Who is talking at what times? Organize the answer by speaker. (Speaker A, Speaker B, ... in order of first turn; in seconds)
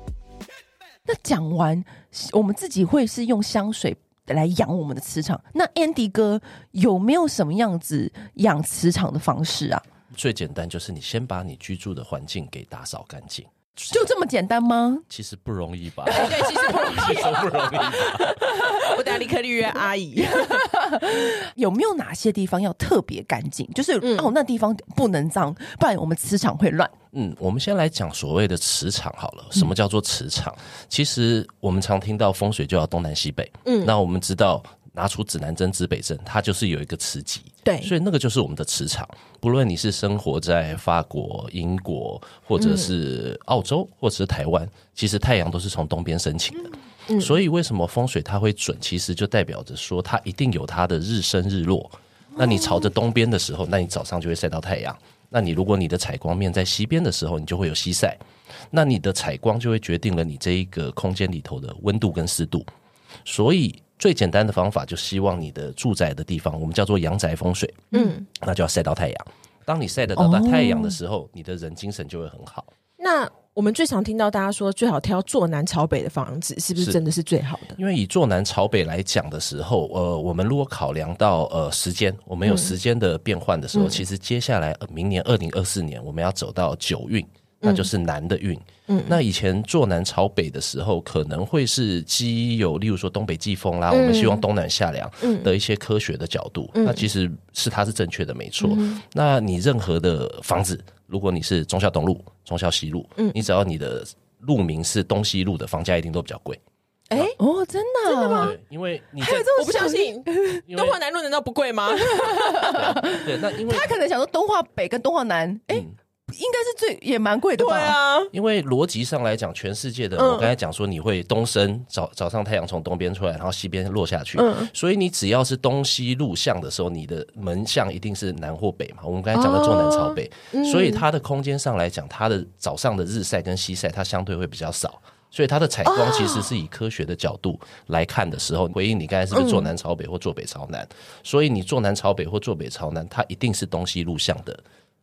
Speaker A: 1.1-9.8, 13.9-15.1, 16.1-16.9, 20.2-26.9, 70.2-71.0, 107.4-108.5, 109.2-110.6, 112.1-118.0
Speaker B: 10.1-13.9, 15.1-18.7, 27.1-58.2, 58.7-62.7, 63.3-72.7, 77.8-106.6, 108.3-109.7, 110.7-111.0, 112.5-114.0, 118.3-144.6
Speaker C: 16.1-20.7, 24.0-24.3, 33.6-33.9, 37.6-37.9, 42.6-42.9, 47.1-47.4, 67.9-68.3, 73.0-77.8, 82.5-82.7, 83.7-84.0, 87.6-87.9, 88.9-89.2, 93.9-94.4, 95.2-95.5, 96.8-97.0, 98.6-99.0, 107.1-107.4, 108.1-108.5, 109.5-113.0, 117.6-118.3, 120.2-120.5, 124.4-124.7, 129.3-131.0, 135.9-136.5, 139.3-139.7